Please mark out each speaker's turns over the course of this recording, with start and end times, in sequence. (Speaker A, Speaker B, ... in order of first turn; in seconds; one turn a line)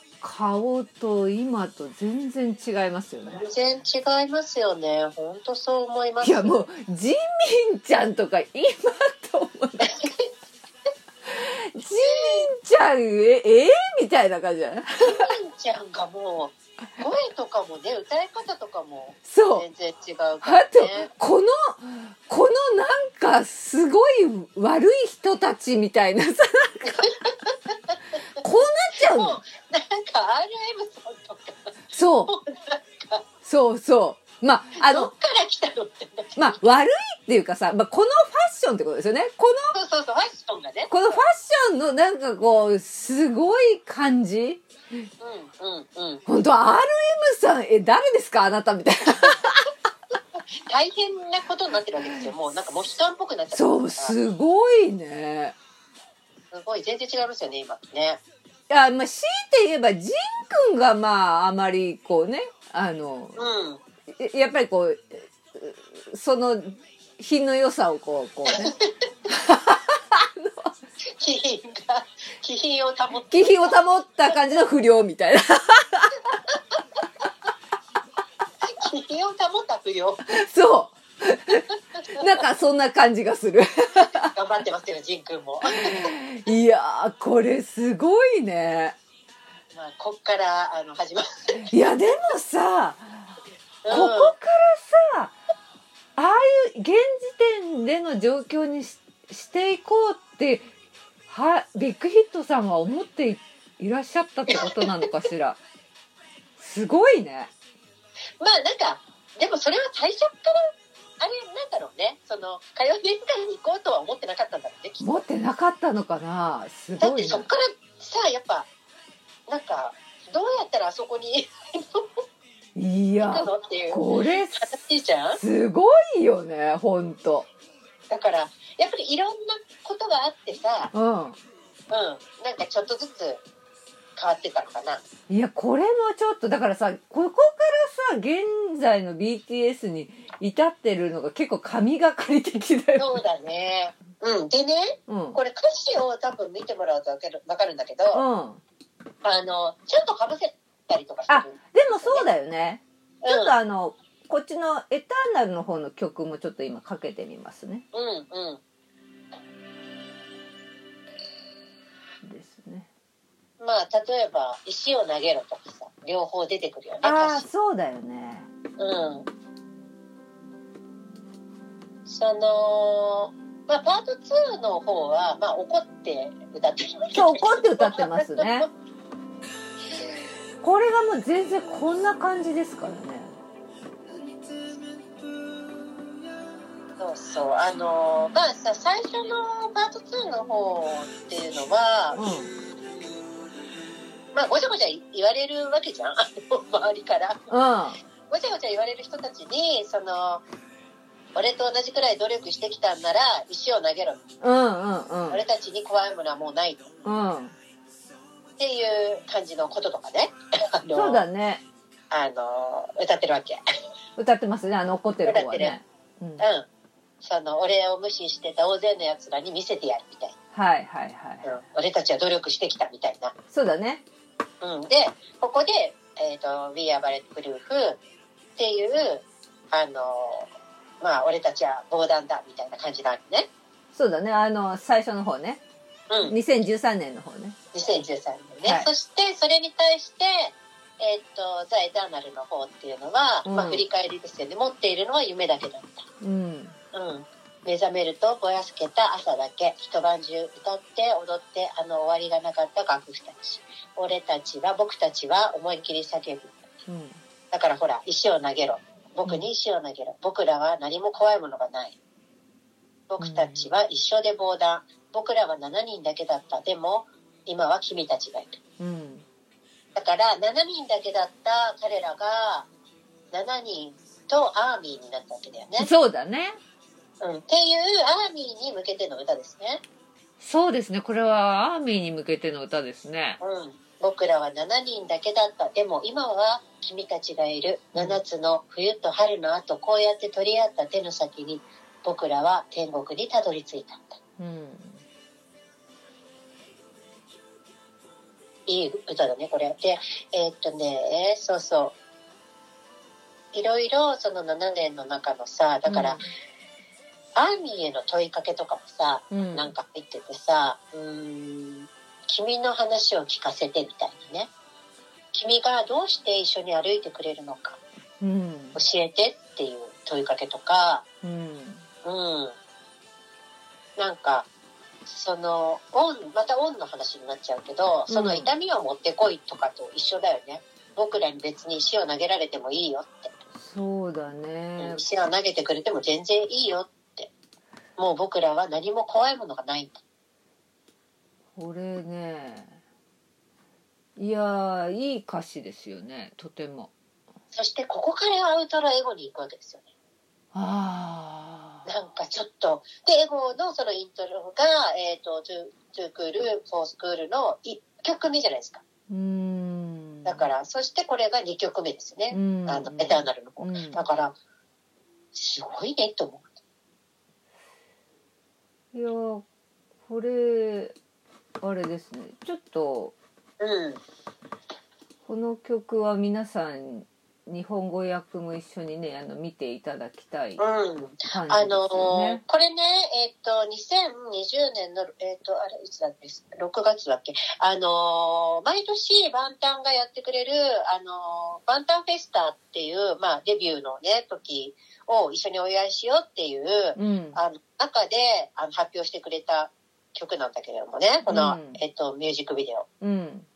Speaker A: 0.2-3.4
Speaker B: 3.3-6.6
Speaker A: 6.2-9.9
Speaker B: 9.8-10.3
Speaker A: 11.2-15.3
Speaker B: 12.0-12.5
Speaker B: 15.0-21.1
Speaker A: 19.2-19.6
Speaker A: 20.4-27.1
Speaker B: 26.8-28.0
Speaker A: 28.4-29.4
Speaker B: 29.0-33.2
Speaker A: 31.9-32.3
Speaker A: 33.4-35.1
Speaker B: 34.7-36.6
Speaker A: 36.4-39.7
Speaker B: 39.7-41.2
Speaker A: 40.9-44.6
Speaker B: 45.2-46.2
Speaker A: 46.2-49.6
Speaker B: 50.6-54.1
Speaker A: 53.5-55.5
Speaker B: 56.5-58.2
Speaker A: 58.7-63.4
Speaker B: 63.4-63.8
Speaker A: 64.1-68.7
Speaker B: 68.5-68.8
Speaker A: 69.3-70.7
Speaker B: 71.2-73.8
Speaker A: 73.3-76.1
Speaker B: 78.6-80.2
Speaker A: 80.2-84.3
Speaker B: 82.0-82.3
Speaker B: 84.3-86.1
Speaker A: 85.7-89.0
Speaker B: 89.7-91.7
Speaker A: 91.7-93.3
Speaker B: 93.8-94.3
Speaker A: 93.9-95.3
Speaker A: 96.2-100.7
Speaker A: 101.3-105.6
Speaker B: 104.5-105.1
Speaker A: 106.6-107.5
Speaker B: 108.4-115.2
Speaker A: 115.0-117.5
Speaker B: 117.0-118.7
Speaker B: 119.5-122.1
Speaker A: 122.7-124.7
Speaker B: 123.2-125.4
Speaker A: 125.4-127.5
Speaker B: 128.1-130.9
Speaker A: 130.9-131.4
Speaker B: 131.9-133.4
Speaker B: 134.2-135.0
Speaker A: 135.3-143.2
Speaker B: 143.0-148.2
Speaker A: 145.1-145.4
Speaker A: 148.1-148.6
Speaker B: 149.2-152.3
Speaker A: 151.3-157.8
Speaker B: 153.2-153.6
Speaker B: 157.9-158.6
Speaker A: 162.2-162.9
Speaker B: 163.6-167.5
Speaker A: 167.0-168.5
Speaker B: 168.8-169.3
Speaker B: 172.1-178.7
Speaker A: 177.1-178.7
Speaker A: 180.6-183.3
Speaker B: 187.0-192.2
Speaker A: 192.1-192.5
Speaker B: 194.3-197.5
Speaker A: 197.5-198.0
Speaker B: 198.3-200.4
Speaker B: 201.3-204.2
Speaker A: 204.4-205.4
Speaker B: 205.3-206.9
Speaker A: 207.0-207.5
Speaker B: 208.6-211.2
Speaker A: 210.9-211.6
Speaker B: 212.1-213.6
Speaker A: 214.2-216.4
Speaker B: 215.2-215.8
Speaker B: 216.4-216.7
Speaker B: 217.2-220.3
Speaker A: 220.5-221.5
Speaker B: 221.4-223.3
Speaker A: 223.5-224.0
Speaker B: 224.6-228.0
Speaker B: 228.6-230.5
Speaker B: 231.0-233.5
Speaker A: 233.9-235.6
Speaker B: 236.1-236.3
Speaker A: 236.2-237.6
Speaker B: 237.7-246.1
Speaker A: 243.4-243.8
Speaker A: 246.2-246.8
Speaker B: 246.9-256.6
Speaker A: 256.9-257.2
Speaker B: 257.5-262.0
Speaker B: 263.1-268.6
Speaker A: 263.2-263.7
Speaker A: 268.8-269.2
Speaker B: 269.9-272.7
Speaker B: 273.3-275.9
Speaker A: 275.8-276.6
Speaker B: 277.2-279.8
Speaker A: 280.4-283.4
Speaker B: 283.4-294.2
Speaker A: 287.9-288.2
Speaker A: 294.4-295.0
Speaker B: 298.7-301.9
Speaker B: 303.5-306.2
Speaker A: 305.9-306.3
Speaker B: 307.4-314.5
Speaker A: 309.3-309.7
Speaker B: 315.3-317.8
Speaker A: 318.2-318.8
Speaker B: 318.7-321.0
Speaker A: 321.2-321.8
Speaker B: 322.0-322.5
Speaker B: 324.0-324.5
Speaker B: 325.1-333.3
Speaker A: 328.1-328.5
Speaker A: 333.5-335.0
Speaker B: 334.8-337.3
Speaker B: 338.0-340.0
Speaker A: 341.5-342.8
Speaker A: 344.2-346.9
Speaker B: 347.5-349.8
Speaker A: 350.5-351.9
Speaker B: 351.9-358.8
Speaker A: 359.1-360.5
Speaker B: 360.2-364.4
Speaker A: 362.3-364.0
Speaker B: 365.3-366.4
Speaker A: 368.9-369.4
Speaker A: 370.1-370.9
Speaker A: 371.6-373.1
Speaker B: 373.6-374.0
Speaker A: 375.2-380.6
Speaker B: 380.6-402.9
Speaker A: 381.3-382.4
Speaker A: 396.9-397.4
Speaker A: 401.3-401.8
Speaker A: 403.0-403.5